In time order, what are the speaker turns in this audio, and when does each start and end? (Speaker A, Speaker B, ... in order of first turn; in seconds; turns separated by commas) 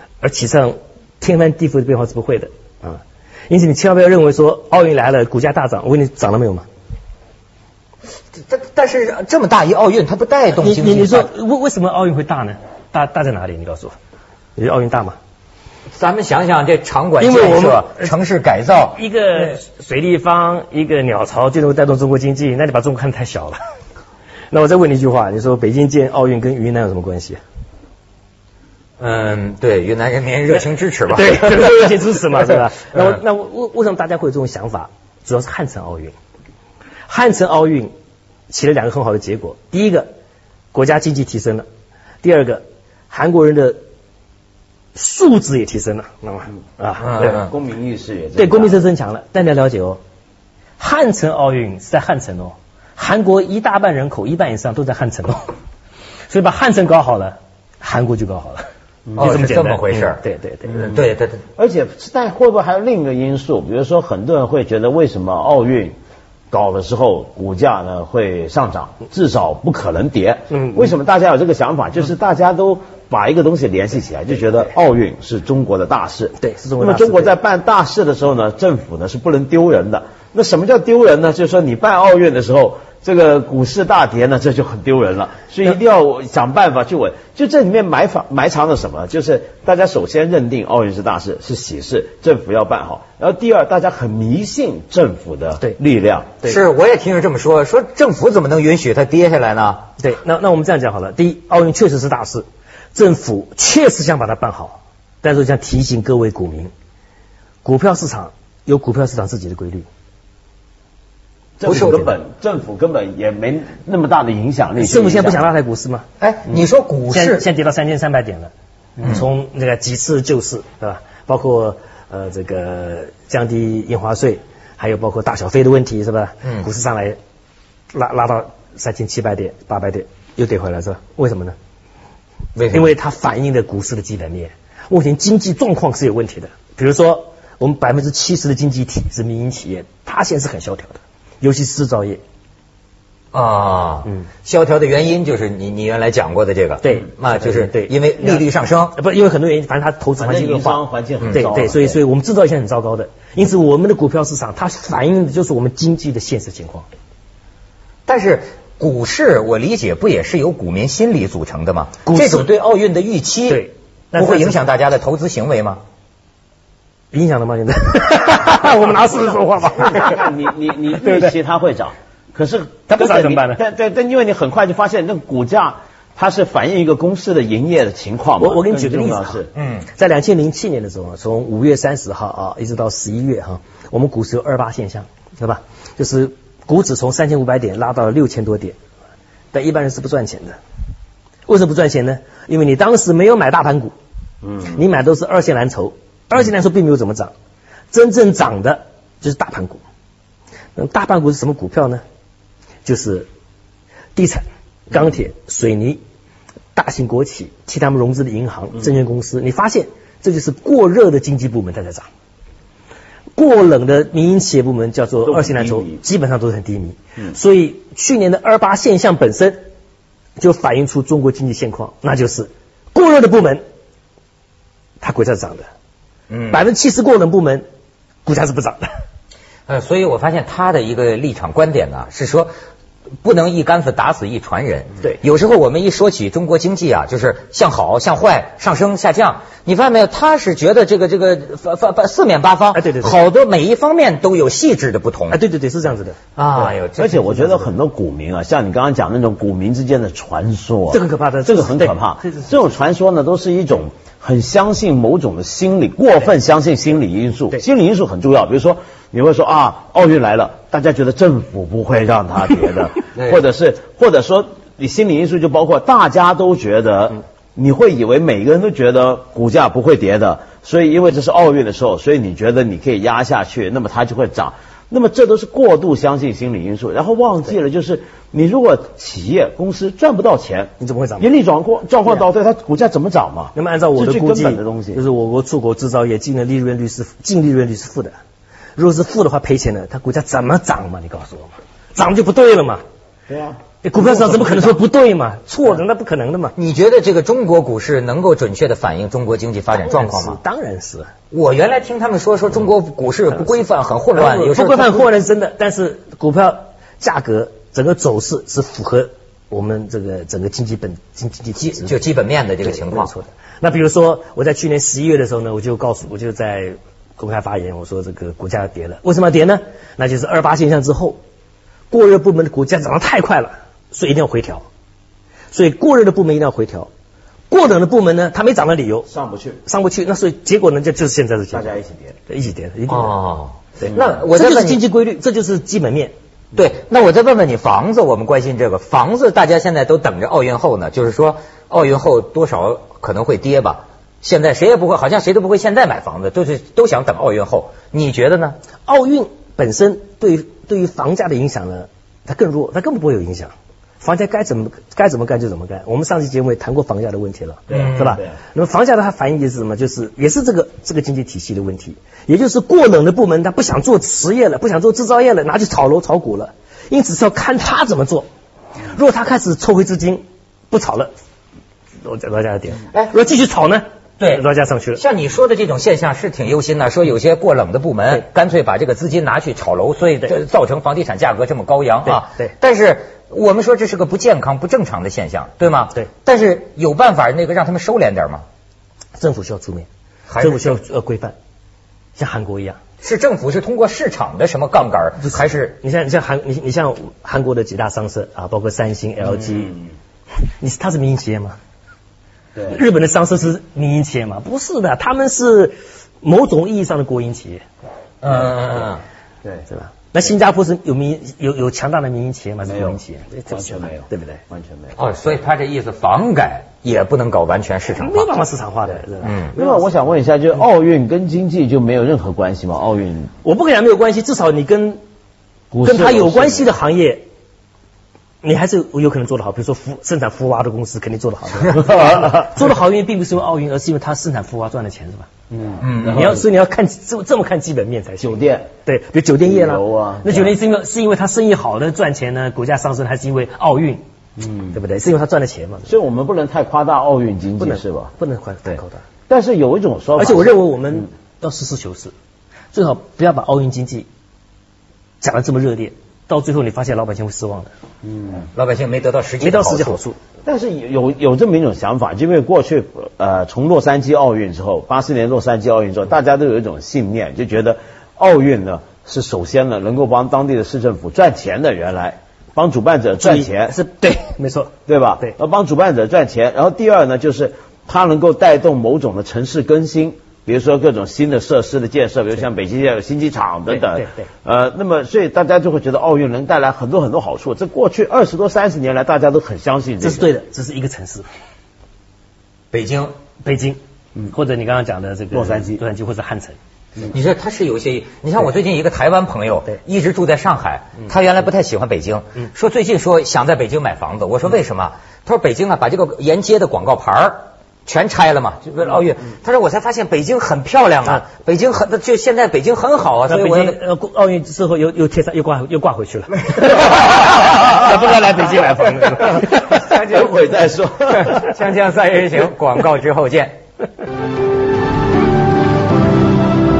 Speaker A: 0.2-6.7, Speaker B: 8.3-11.3, Speaker A: 10.6-13.9, Speaker A: 14.6-15.2, Speaker B: 15.9-19.6, Speaker A: 17.2-18.1, Speaker A: 18.9-23.6, Speaker A: 24.5-27.4, Speaker B: 29.0-32.1, Speaker A: 31.1-36.1, Speaker A: 37.1-37.9, Speaker A: 38.5-40.1, Speaker A: 40.7-41.7, Speaker A: 42.2-43.8, Speaker A: 44.9-47.4, Speaker B: 47.0-47.5, Speaker C: 47.1-48.8, Speaker A: 48.4-50.0, Speaker A: 50.8-55.5, Speaker A: 56.3-60.9, Speaker B: 59.1-61.4, Speaker C: 61.5-66.0, Speaker C: 66.5-96.4, Speaker A: 70.5-70.9, Speaker A: 76.4-77.3, Speaker B: 96.4-99.8, Speaker A: 100.0-106.7, Speaker A: 107.6-109.8, Speaker C: 111.6-115.5, Speaker B: 111.7-112.1, Speaker A: 111.7-112.1, Speaker A: 114.8-116.0, Speaker B: 116.2-117.5, Speaker A: 117.1-118.5, Speaker A: 119.0-127.2, Speaker A: 127.9-131.6, Speaker B: 132.5-132.9, Speaker A: 132.7-142.2, Speaker B: 143.3-148.9, Speaker A: 146.8-156.8, Speaker C: 150.2-152.0, Speaker B: 158.1-165.8, Speaker A: 162.0-162.5, Speaker A: 163.5-164.6, Speaker A: 167.1-170.2, Speaker C: 169.8-179.5, Speaker A: 171.0-171.3, Speaker A: 172.9-173.6, Speaker A: 178.4-179.4, Speaker B: 179.6-179.9, Speaker A: 179.9-188.8, Speaker A: 189.5-190.6, Speaker A: 191.5-193.9, Speaker A: 194.6-197.3, Speaker A: 197.9-199.8, Speaker A: 200.7-202.0, Speaker A: 202.8-203.3, Speaker A: 204.1-206.0, Speaker A: 206.7-212.1, Speaker A: 213.3-219.6, Speaker C: 215.2-216.0, Speaker A: 220.4-223.6, Speaker A: 225.0-225.7, Speaker B: 226.3-226.7, Speaker A: 226.5-227.6, Speaker A: 228.2-228.9, Speaker B: 229.7-232.5, Speaker B: 233.2-245.4, Speaker A: 242.7-243.2, Speaker A: 245.3-246.2, Speaker B: 246.4-247.6, Speaker C: 246.5-285.0, Speaker A: 250.9-252.5, Speaker A: 280.8-281.3, Speaker A: 283.5-288.1, Speaker A: 288.8-292.8, Speaker C: 293.3-294.5, Speaker A: 293.8-296.5, Speaker B: 296.6-300.4, Speaker A: 299.7-301.1, Speaker B: 301.3-305.1, Speaker A: 304.1-312.0, Speaker B: 311.6-313.1, Speaker A: 312.6-321.2, Speaker A: 321.9-324.6, Speaker A: 325.5-326.9, Speaker A: 327.5-329.1, Speaker C: 329.1-329.6, Speaker A: 329.6-331.7, Speaker C: 331.5-332.1, Speaker A: 332.3-333.1, Speaker B: 332.9-334.8, Speaker A: 333.8-336.1, Speaker B: 336.5-348.6, Speaker A: 348.9-368.2, Speaker C: 357.7-358.3, Speaker B: 357.7-358.2, Speaker A: 368.8-371.1, Speaker A: 372.0-375.0, Speaker B: 375.0-388.4, Speaker A: 382.1-382.5, Speaker A: 389.2-389.9, Speaker B: 390.3-390.8, Speaker A: 390.4-391.3, Speaker A: 392.2-392.8, Speaker B: 393.0-395.8, Speaker A: 395.2-399.7, Speaker A: 400.5-401.6, Speaker A: 402.6-407.6, Speaker B: 408.2-409.0, Speaker A: 409.7-414.4, Speaker C: 412.7-414.9, Speaker B: 414.9-418.3, Speaker A: 418.0-419.9, Speaker B: 419.2-419.5, Speaker C: 419.5-423.3, Speaker A: 423.4-425.0, Speaker C: 425.7-426.6, Speaker A: 425.8-427.2, Speaker A: 428.4-435.3, Speaker C: 431.8-432.4, Speaker C: 435.5-436.4, Speaker B: 435.8-436.4, Speaker A: 436.1-444.0, Speaker C: 438.2-438.7, Speaker C: 439.4-440.5, Speaker C: 444.4-444.7, Speaker A: 444.7-445.9, Speaker C: 445.9-448.1, Speaker A: 447.6-449.0, Speaker C: 448.7-450.6, Speaker A: 450.2-452.1, Speaker A: 452.7-454.1, Speaker A: 455.2-457.7, Speaker C: 458.0-458.5, Speaker B: 458.5-460.0, Speaker A: 459.4-460.2, Speaker C: 460.4-473.7, Speaker A: 473.2-475.3, Speaker C: 474.9-490.2, Speaker A: 483.9-484.2, Speaker A: 490.0-491.3, Speaker B: 492.7-493.1, Speaker A: 493.4-496.6, Speaker C: 495.3-495.8, Speaker B: 497.1-513.8, Speaker A: 513.3-519.6, Speaker B: 516.5-517.0, Speaker B: 519.1-520.3, Speaker C: 519.7-521.5, Speaker B: 521.0-523.6